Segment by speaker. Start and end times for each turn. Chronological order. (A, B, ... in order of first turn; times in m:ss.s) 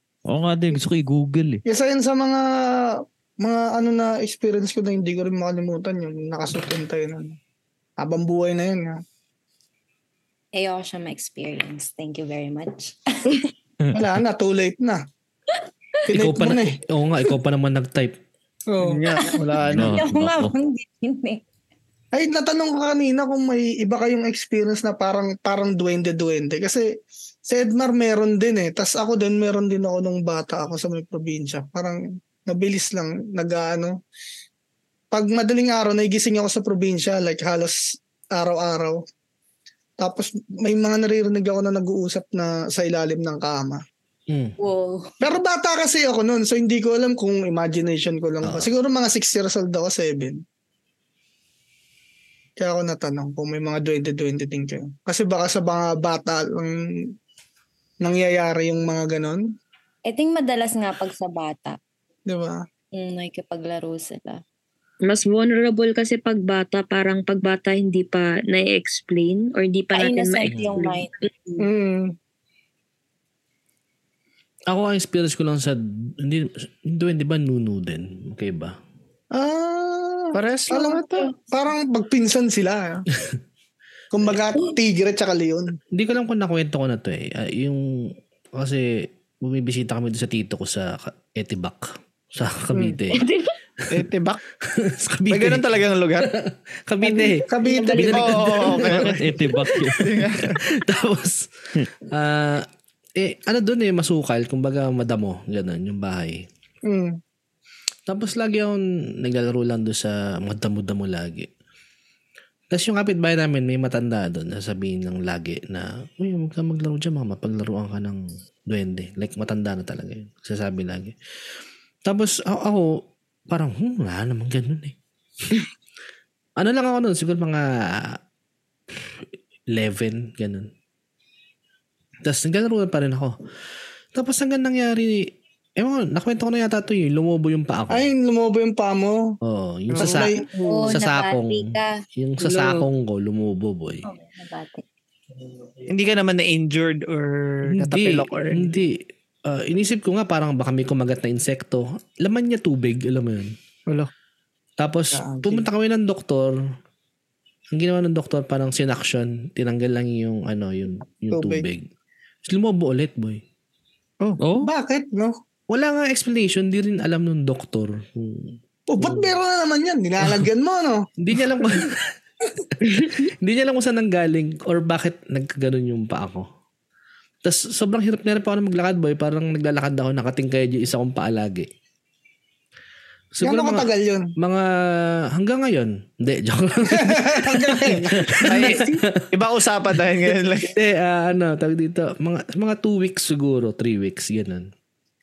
0:00.3-0:01.6 A
0:01.6-0:07.4 B
0:08.0-0:09.0 B
0:10.5-0:13.5 C
0:13.9-0:15.0 B
0:16.1-0:16.8 B
0:16.1-0:18.1 D
0:18.7-0:19.2 B
0:18.8-0:20.0 E
0:19.2-0:21.4 C
0:19.6-0:20.5 A
0:22.1-0:26.9 B
0:27.5-0:34.0 B
0:35.1-0:39.0 B
0:40.0-0:43.8 B
0:44.3-0:44.6 D
0:44.6-0:45.1 C
0:45.2-0:50.4 B
0:48.4-0:48.7 D
0:52.6-0:56.8 B
0:58.0-0:59.4 B
1:00.0-1:01.8 C
1:02.3-1:02.6 B
1:02.9-1:04.4 C
1:05.0-1:11.6 F
1:09.9-1:11.1 C
1:10.5-1:10.8 D
1:11.6-1:12.1 B
1:14.7-1:18.8 D
1:19.3-1:23.1 B
1:20.3-1:21.3 E
1:24.1-1:25.8 B
1:25.9-1:33.2 D
1:33.1-1:33.5 F
1:33.9-1:34.4 E
1:34.6-1:39.1 D
1:35.3-1:36.3 E
1:37.0-1:39.1 B
1:38.0-1:39.2 E
1:38.9-1:40.0 A
1:39.9-1:40.6 E
1:40.7-1:41.5 D
1:42.1-1:42.6 D
1:43.2-1:46.5 D
1:46.8-1:47.2 B
1:48.1-1:51.5 D
1:52.7-2:01.1 D
2:02.0-2:05.0 D
2:06.6-2:08.2 D
2:09.1-2:10.7 D
2:12.2-2:13.3 D
2:14.1-2:18.1 D
2:17.9-2:19.4 B
2:19.4-2:20.3 D
2:19.9-2:20.3 E
2:19.9-2:20.5 B
2:20.6-2:20.9 F
2:20.7-2:21.9 C
2:20.9-2:24.0 D
2:22.4-2:22.8 F
2:24.1-2:24.8 C
2:25.9-2:28.7 E
2:27.6-2:33.6 D
2:34.8-2:36.6 D
2:35.1-2:35.6 B
2:37.7-2:41.8 D
2:41.3-2:41.6 B
2:42.4-2:43.4 D
2:44.4-2:44.7 A
2:44.6-2:45.3 B
2:45.7-2:49.3 D
2:48.9-2:51.1 B
2:51.2-2:52.0 D
2:52.8-2:56.5 D
2:57.4-3:01.7 D
3:03.3-3:09.2 D
3:03.4-3:04.3 B
3:06.9-3:08.9 B
3:08.4-3:10.7 E
3:10.6-3:14.7 D